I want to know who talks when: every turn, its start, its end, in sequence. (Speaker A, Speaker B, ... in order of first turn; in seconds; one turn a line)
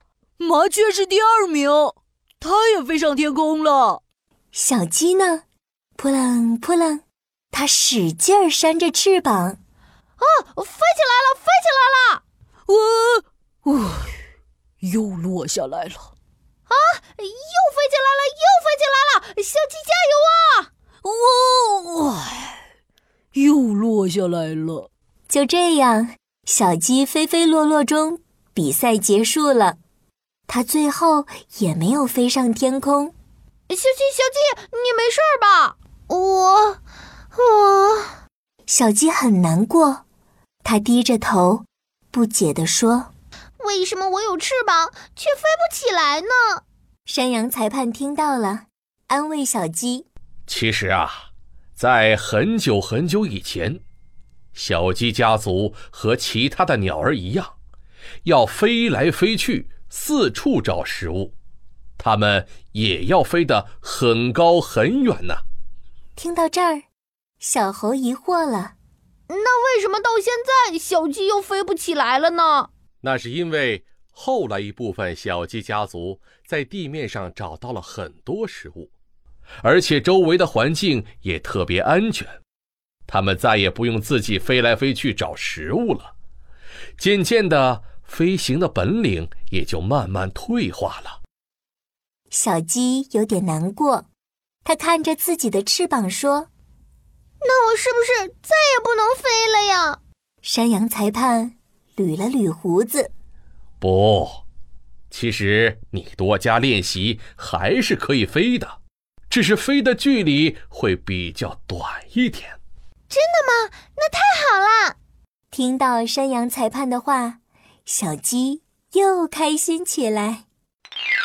Speaker A: 0.4-4.0
Speaker B: 4.5-5.4
Speaker B: 6.0-9.6
Speaker C: 10.2-12.2
Speaker A: 12.7-14.2
Speaker A: 14.8-16.1
Speaker C: 16.7-20.7
Speaker A: 21.0-22.6
Speaker A: 23.3-24.9
Speaker B: 25.3-29.8
Speaker B: 30.5-33.1
Speaker C: 33.7-36.8
Speaker C: 37.3-38.2
Speaker B: 38.7-40.0
Speaker B: 40.6-43.1
Speaker C: 43.6-46.6
Speaker B: 47.1-50.1
Speaker D: 50.5-53.8
Speaker D: 54.5-57.5
Speaker D: 58.2-61.3
Speaker D: 62.0-65.4
Speaker B: 66.2-66.8
Speaker B: 67.4-68.7
Speaker C: 69.3-72.7
Speaker D: 73.0-78.9
Speaker D: 79.6-82.4
Speaker D: 83.1-86.1
Speaker D: 87.0-91.2
Speaker B: 92.3-94.1
Speaker B: 94.6-96.5
Speaker C: 97.4-100.0
Speaker B: 100.4-103.1
Speaker D: 103.8-104.4
Speaker D: 105.1-108.8
Speaker D: 109.3-112.6
Speaker C: 113.1-115.0
Speaker B: 115.5-120.4